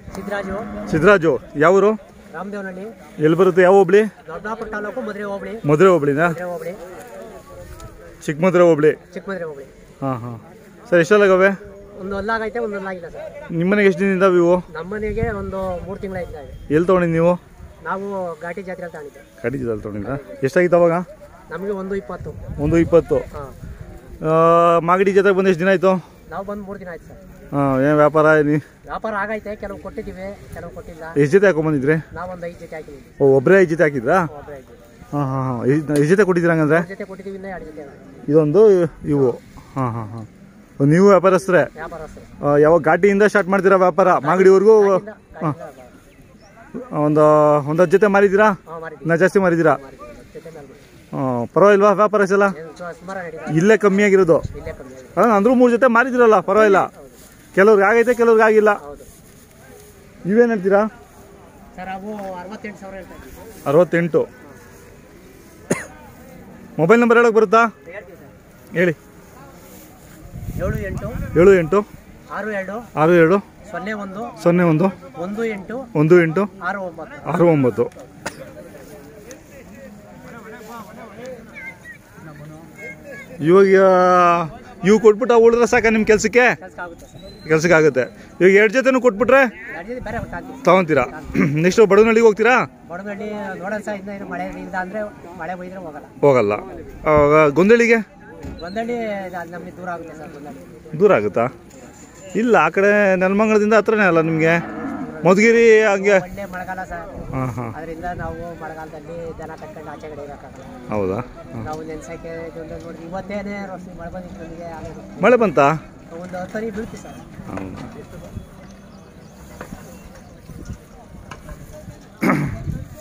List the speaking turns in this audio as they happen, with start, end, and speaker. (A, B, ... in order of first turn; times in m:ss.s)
0:00.1-0:00.7 A
0:00.9-0:02.0 B
0:02.3-0:02.9 A
0:03.2-0:04.1 B
0:04.2-0:05.6 A
0:05.6-0:06.4 B
0:06.2-0:06.8 A
0:08.2-0:09.0 B
0:09.1-0:09.7 A
0:10.0-0:11.6 B
0:12.0-0:13.3 A
0:13.5-0:14.6 B
0:14.7-0:16.6 A
0:16.7-0:17.4 B
0:17.8-0:19.2 A
0:19.4-0:21.1 B
0:20.0-0:20.4 A
0:21.5-0:22.4 A
0:22.6-0:23.2 B
0:24.2-0:26.0 B
0:26.3-0:27.2 A
0:27.5-0:28.6 B
0:28.9-0:31.2 A
0:31.2-0:32.0 B
0:32.1-0:33.2 A
0:33.2-0:34.3 B
0:34.3-0:34.8 A
0:35.1-0:36.9 B
0:36.7-0:38.2 A
0:38.3-0:40.3 B
0:40.8-0:41.7 B
0:41.8-0:42.3 A
0:42.4-0:45.6 B
0:44.1-0:46.0 A
0:46.8-0:49.8 B
0:48.6-0:50.8 A
0:51.1-0:52.6 B
0:52.5-0:53.7 A
0:53.5-0:54.4 B
0:54.5-0:55.2 A
0:55.2-0:56.9 B
0:56.5-0:57.2 A
0:57.6-0:58.8 B
0:58.8-0:59.1 A
1:00.2-1:00.9 B
1:01.8-1:03.4 A
1:03.7-1:04.3 B
1:06.8-1:07.7 B
1:07.9-1:08.2 A
1:10.6-1:11.2 A
1:11.3-1:11.9 B
1:12.3-1:12.9 A
1:13.0-1:13.4 B
1:13.6-1:14.4 A
1:14.4-1:15.0 B
1:15.1-1:15.9 A
1:16.0-1:16.5 B
1:16.6-1:17.4 A
1:17.2-1:17.9 B
1:23.4-1:26.6 B
1:26.6-1:27.3 A
1:27.4-1:29.5 B
1:29.7-1:31.4 A
1:30.6-1:32.7 B
1:32.9-1:36.1 A
1:36.2-1:38.0 B
1:38.6-1:40.7 A
1:40.9-1:41.5 B
1:42.4-1:44.6 B
1:44.5-1:47.2 A
1:45.2-1:46.2 B
1:47.3-1:47.7 B
1:47.7-1:50.7 A
1:50.9-1:51.7 B
1:51.6-1:55.5 A
1:55.2-1:55.8 B
1:56.1-1:57.2 A
1:57.5-1:57.9 B